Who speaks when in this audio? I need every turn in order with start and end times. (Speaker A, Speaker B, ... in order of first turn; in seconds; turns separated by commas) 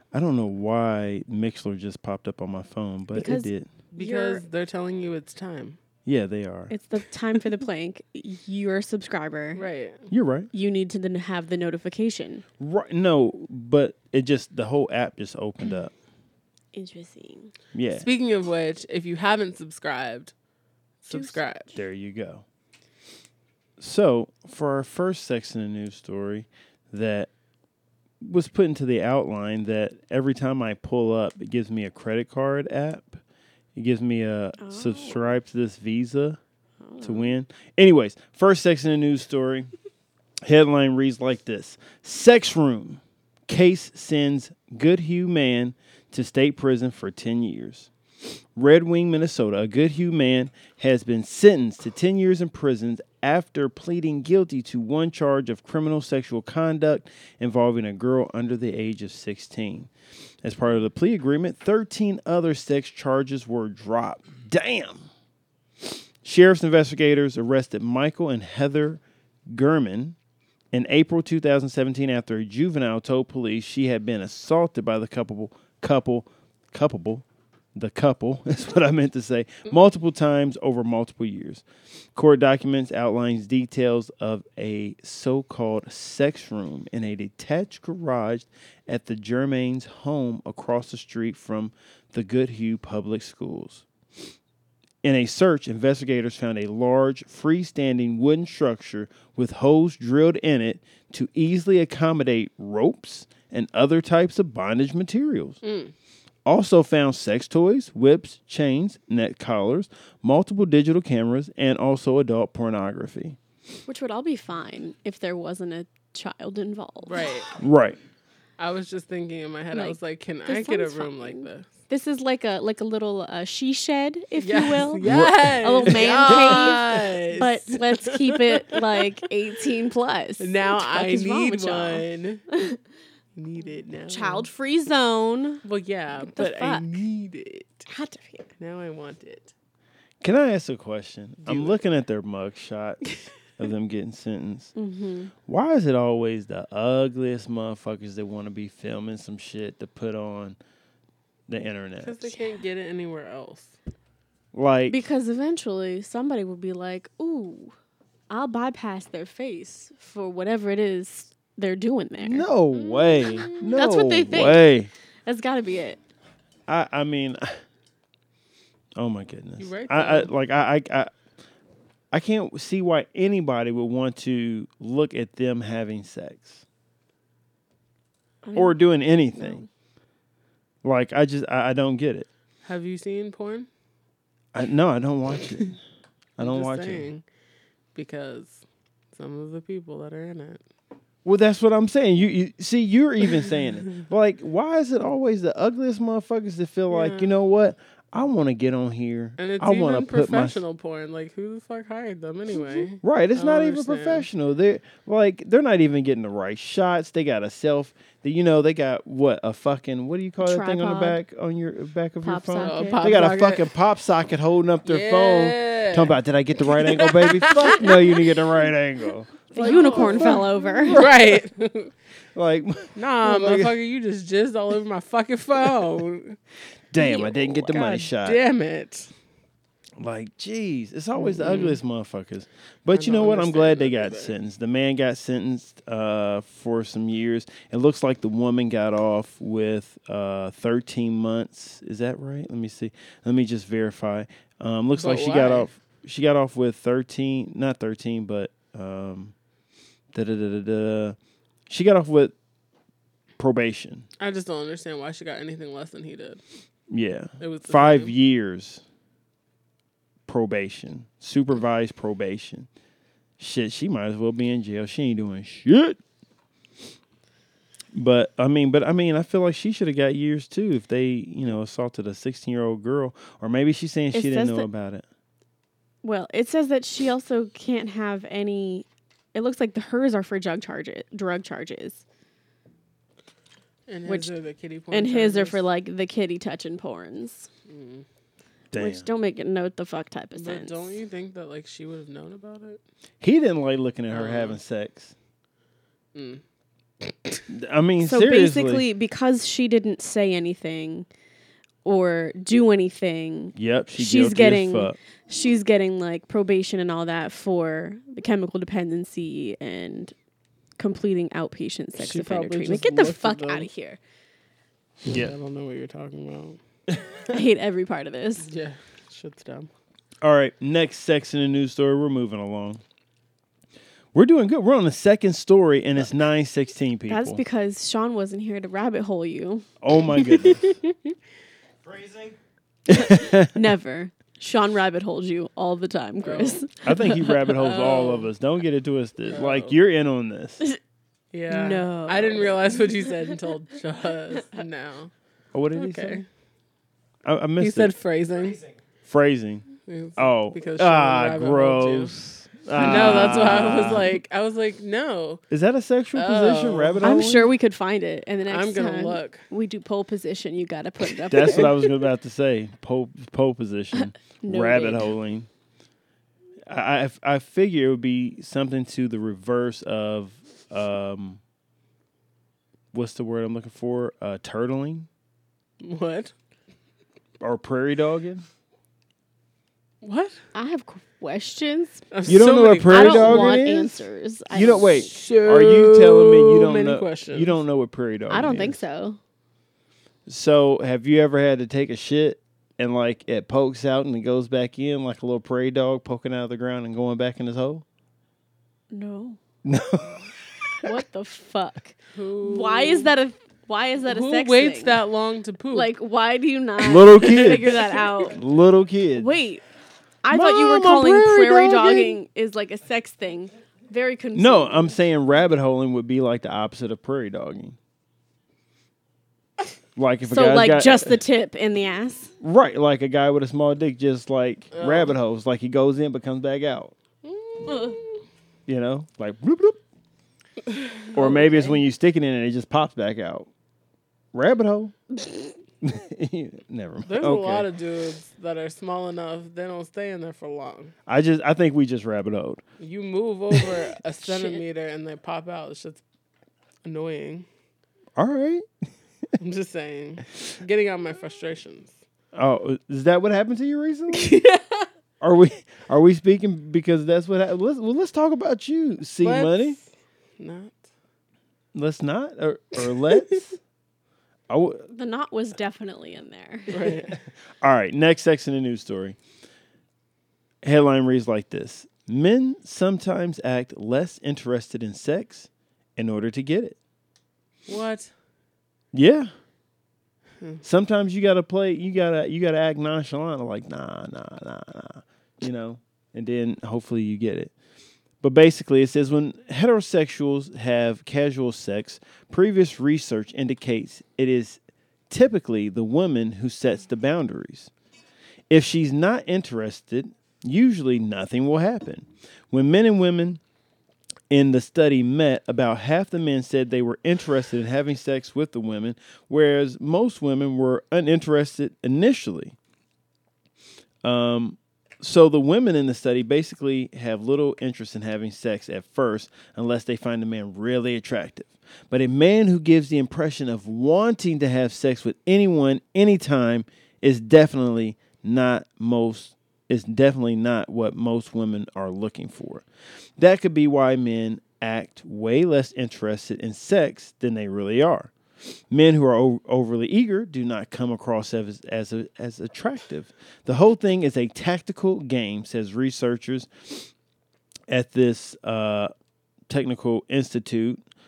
Speaker A: 0.1-3.7, Speaker B: 3.1-4.4, Speaker C: 3.9-5.8, Speaker A: 6.0-6.7, Speaker B: 6.7-9.6, Speaker C: 9.5-10.1, Speaker A: 10.1-10.5, Speaker B: 10.5-12.4, Speaker A: 12.6-15.9, Speaker B: 16.7-17.5, Speaker A: 17.7-18.1, Speaker C: 17.9-20.3, Speaker C: 21.0-21.8, Speaker B: 21.1-21.4, Speaker A: 21.7-22.4, Speaker A: 23.8-27.3, Speaker A: 28.2-33.2, Speaker A: 33.8-36.4, Speaker B: 34.6-35.4, Speaker B: 36.8-37.3, Speaker A: 37.0-39.7, Speaker A: 40.4-47.9, Speaker A: 48.5-59.9, Speaker A: 60.4-65.0, Speaker A: 66.2-70.2, Speaker A: 70.7-93.9, Speaker A: 95.0-105.6, Speaker C: 105.6-105.9, Speaker A: 106.5-113.4, Speaker B: 113.9-117.3, Speaker C: 117.0-117.5, Speaker A: 117.5-118.0, Speaker C: 118.6-121.7, Speaker B: 119.7-132.8, Speaker C: 124.4-129.2, Speaker A: 125.0-126.8, Speaker C: 130.4-132.4, Speaker C: 133.3-134.5, Speaker B: 134.1-135.6, Speaker C: 135.6-137.9, Speaker B: 136.2-136.9, Speaker B: 137.9-138.5, Speaker C: 138.6-139.5, Speaker A: 140.2-144.7, Speaker C: 141.4-141.8, Speaker B: 144.8-145.3, Speaker A: 145.4-150.6, Speaker A: 151.5-152.3, Speaker C: 152.0-153.7, Speaker A: 154.5-155.0, Speaker B: 154.9-157.7, Speaker B: 158.3-162.5, Speaker A: 162.2-164.9, Speaker C: 162.7-163.5, Speaker B: 163.5-164.7, Speaker B: 165.2-166.0, Speaker A: 166.7-167.5, Speaker A: 168.9-171.1, Speaker C: 169.6-170.3, Speaker A: 172.1-176.6, Speaker B: 178.4-178.8, Speaker A: 178.6-179.6, Speaker B: 179.4-179.7, Speaker A: 180.8-182.3, Speaker C: 182.6-183.7, Speaker A: 184.5-185.8, Speaker A: 186.4-187.1, Speaker C: 186.4-187.2, Speaker C: 187.9-190.6, Speaker A: 191.2-200.6, Speaker C: 196.9-197.3, Speaker C: 199.4-204.3, Speaker A: 203.0-221.4, Speaker B: 210.4-211.2, Speaker B: 212.2-213.0, Speaker C: 212.6-213.7, Speaker C: 214.8-218.4, Speaker B: 219.5-221.0, Speaker C: 219.6-221.9, Speaker A: 222.3-223.8, Speaker C: 222.9-226.4, Speaker A: 226.9-228.4, Speaker C: 227.0-229.1, Speaker A: 230.0-249.3, Speaker C: 231.2-231.8, Speaker C: 232.9-234.3, Speaker C: 244.9-245.7, Speaker A: 250.1-251.2, Speaker A: 251.7-252.3, Speaker A: 253.4-254.1, Speaker C: 254.2-256.4, Speaker A: 256.9-258.8, Speaker C: 257.4-258.1, Speaker A: 260.3-262.7, Speaker A: 263.4-266.0, Speaker A: 267.9-275.0, Speaker B: 274.1-274.7, Speaker B: 276.0-282.0, Speaker C: 283.9-285.6, Speaker B: 284.1-284.3, Speaker B: 284.9-287.5, Speaker C: 287.7-288.0, Speaker A: 288.7-289.1, Speaker B: 288.7-290.9, Speaker C: 290.3-292.8, Speaker A: 293.2-295.1, Speaker C: 294.1-294.6, Speaker C: 296.1-296.4, Speaker C: 297.0-297.4, Speaker A: 297.5-298.8, Speaker B: 298.0-301.1, Speaker B: 301.8-310.1, Speaker A: 303.6-305.0, Speaker B: 310.8-314.0, Speaker C: 312.0-313.7, Speaker A: 315.1-315.3, Speaker C: 315.1-316.6, Speaker B: 317.3-318.5, Speaker C: 318.4-319.7, Speaker A: 320.2-322.8, Speaker A: 324.1-327.4, Speaker B: 327.1-329.6, Speaker A: 329.8-330.7, Speaker C: 330.2-330.7, Speaker A: 332.9-333.7, Speaker B: 332.9-337.2, Speaker C: 336.2-336.6, Speaker A: 336.8-340.6, Speaker C: 337.5-338.3, Speaker C: 339.3-339.8, Speaker C: 341.3-345.1, Speaker B: 341.5-343.3, Speaker A: 345.5-346.2, Speaker C: 345.7-346.2, Speaker A: 347.2-347.9, Speaker C: 347.6-348.6, Speaker A: 349.0-349.6, Speaker C: 349.9-352.1, Speaker A: 350.2-354.2, Speaker C: 352.8-355.4, Speaker B: 352.8-354.0, Speaker A: 355.5-357.5, Speaker C: 356.1-357.3, Speaker B: 357.0-361.8, Speaker C: 358.5-359.4, Speaker A: 361.3-365.5, Speaker C: 361.4-361.8, Speaker B: 364.4-365.1, Speaker A: 366.7-371.4, Speaker A: 372.9-375.1, Speaker C: 375.8-376.3, Speaker A: 377.4-378.4, Speaker C: 380.0-380.4, Speaker B: 380.5-382.0, Speaker C: 382.1-383.5, Speaker A: 382.2-388.8, Speaker B: 382.9-385.1, Speaker C: 385.0-387.6, Speaker B: 388.3-389.2, Speaker A: 390.3-397.8, Speaker B: 398.9-399.4, Speaker A: 399.6-400.9, Speaker B: 400.8-405.0, Speaker C: 402.1-403.1, Speaker C: 404.1-405.9, Speaker B: 405.7-408.4, Speaker A: 406.8-409.3, Speaker B: 409.1-409.6, Speaker B: 410.2-414.9, Speaker A: 410.3-412.2, Speaker A: 414.3-417.8, Speaker A: 419.9-421.2, Speaker B: 420.3-422.3, Speaker A: 422.4-426.9, Speaker C: 424.7-425.1, Speaker C: 427.2-428.2, Speaker A: 428.7-429.8, Speaker A: 431.1-433.5, Speaker B: 431.1-431.8, Speaker A: 434.3-435.0, Speaker A: 435.8-437.7, Speaker C: 437.1-440.9, Speaker A: 441.1-442.6, Speaker C: 442.8-446.0, Speaker A: 443.5-443.8, Speaker B: 444.2-444.6, Speaker C: 446.8-447.4, Speaker A: 448.1-448.6, Speaker C: 449.4-452.0, Speaker A: 452.3-454.4, Speaker C: 454.1-454.9, Speaker A: 455.2-459.8, Speaker C: 459.2-459.9, Speaker C: 460.4-460.8, Speaker A: 461.7-463.6, Speaker A: 464.5-464.9, Speaker B: 464.9-466.9, Speaker C: 466.7-467.2, Speaker A: 467.6-469.2, Speaker A: 470.6-476.8, Speaker C: 477.7-478.1, Speaker A: 478.9-479.3, Speaker A: 480.6-487.5, Speaker A: 488.2-497.7, Speaker A: 498.5-503.4, Speaker A: 504.3-512.5, Speaker A: 514.0-532.6, Speaker A: 533.2-538.1, Speaker A: 538.7-546.9, Speaker A: 547.7-548.9, Speaker A: 549.5-550.8